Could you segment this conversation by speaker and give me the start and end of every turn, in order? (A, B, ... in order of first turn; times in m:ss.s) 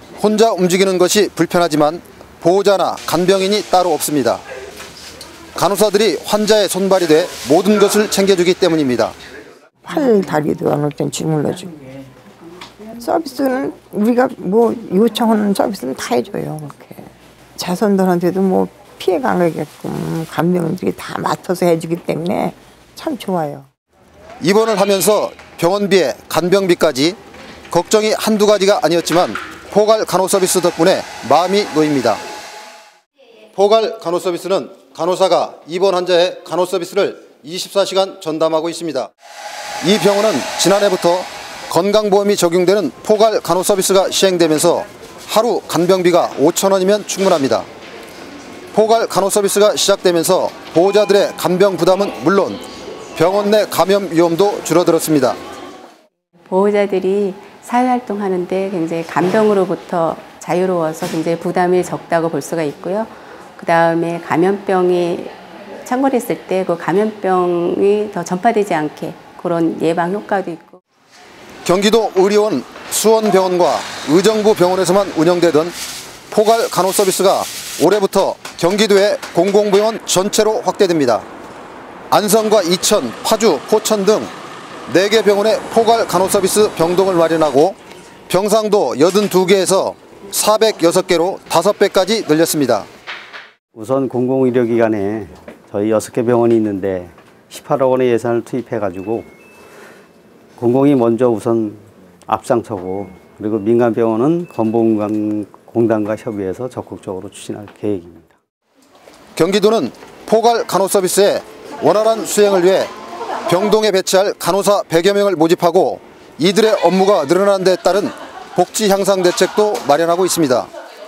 0:00.2-0:04.4 A
0:05.6-0:09.1 A
0:09.8-0:11.8 B
0:13.0-0:23.7 B
0:24.4-0:27.2 A
0:27.7-0:32.2 A
0:33.5-0:39.1 A
0:39.8-0:47.7 A
0:48.7-0:52.6 A
0:53.2-0:55.4 A
0:56.5-1:10.8 C
1:11.6-1:15.7 A
1:16.3-1:21.2 A
1:22.1-1:24.3 A
1:24.9-1:27.8 A
1:28.3-1:32.9 A
1:33.7-1:39.3 D
1:40.6-1:48.4 D
1:49.4-1:52.9 A
1:53.5-2:00.7 A